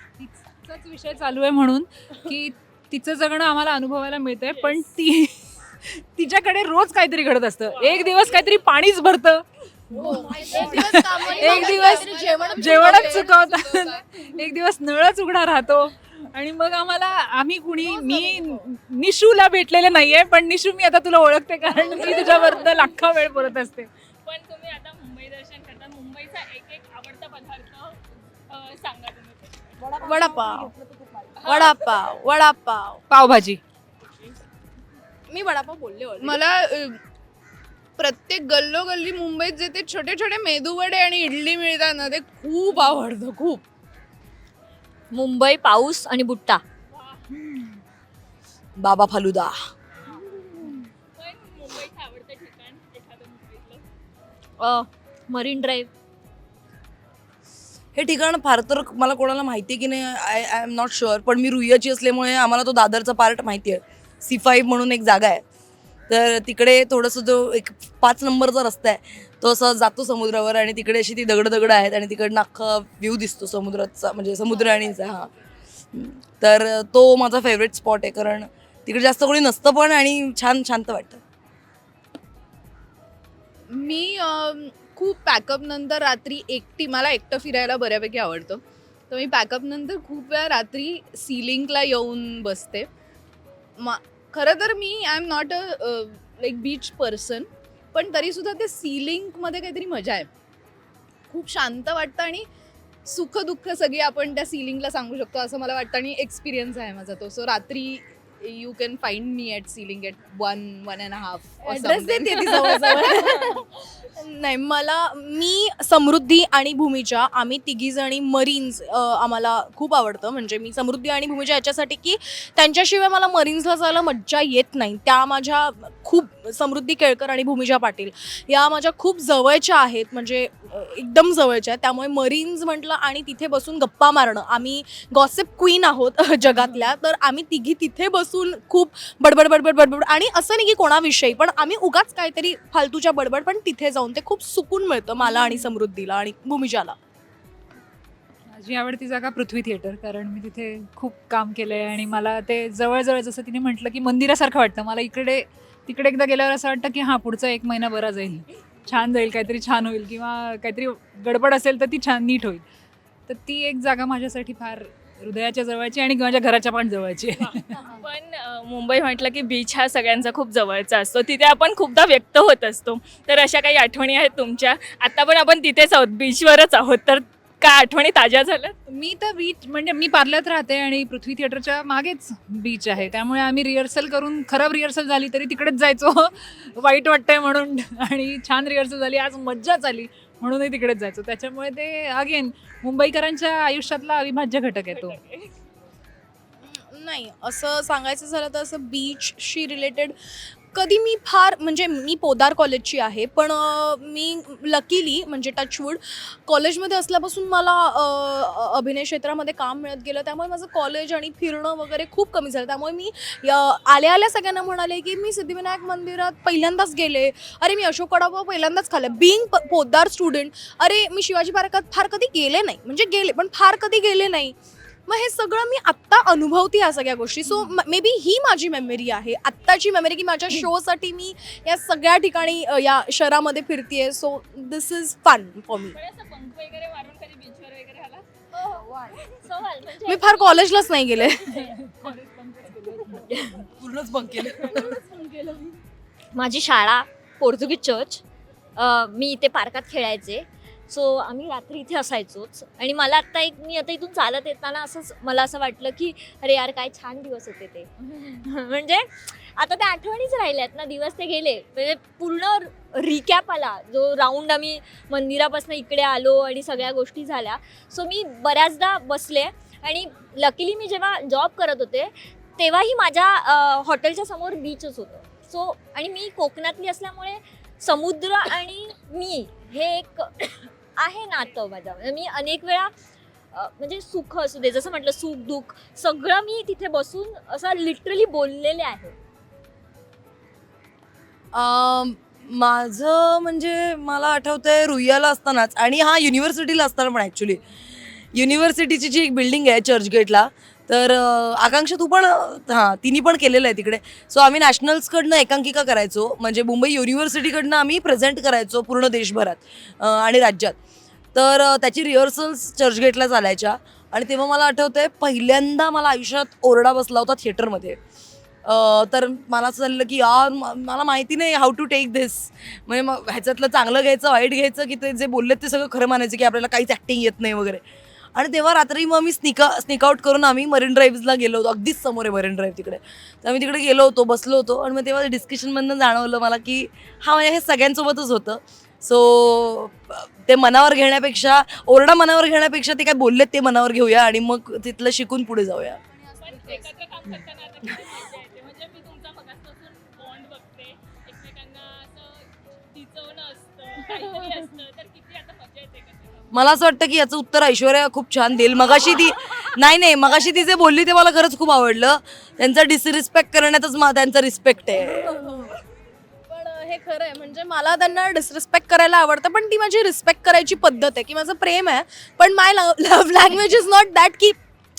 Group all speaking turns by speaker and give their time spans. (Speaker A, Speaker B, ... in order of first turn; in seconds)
Speaker A: 0.2-23.9, 33.1-33.6, 136.5-136.8, 145.3-145.6, 148.5-162.6, 163.3-167.8, 178.9-195.2, 241.5-243.3
Speaker B: 4.5-4.8, 7.7-8.5, 10.4-10.8, 24.2-28.0, 28.5-29.7, 31.4-31.8, 46.9-47.4, 51.2-53.8, 167.4-178.8, 194.9-195.5, 235.9-238.2, 346.4-356.5
Speaker C: 9.9-13.4, 17.8-18.6, 30.0-30.7, 31.4-33.0, 35.3-36.4, 111.6-146.9, 196.6-224.5, 225.1-236.0, 240.1-241.7, 244.8-245.5, 365.2-365.6, 366.5-374.6
Speaker D: 11.7-14.0, 36.2-37.0, 38.0-43.6, 83.7-92.9, 93.8-100.3, 101.3-102.5, 103.0-113.3
Speaker E: 45.1-46.6, 54.6-55.9, 238.5-240.6, 243.2-243.6, 246.3-248.2, 248.8-282.9, 283.5-289.1
Speaker F: 48.8-49.5, 57.9-65.4, 66.1-75.3, 75.9-81.2, 243.8-244.9, 291.5-297.6, 298.3-310.8, 311.3-318.0, 318.6-327.8, 328.4-346.0, 356.5-365.4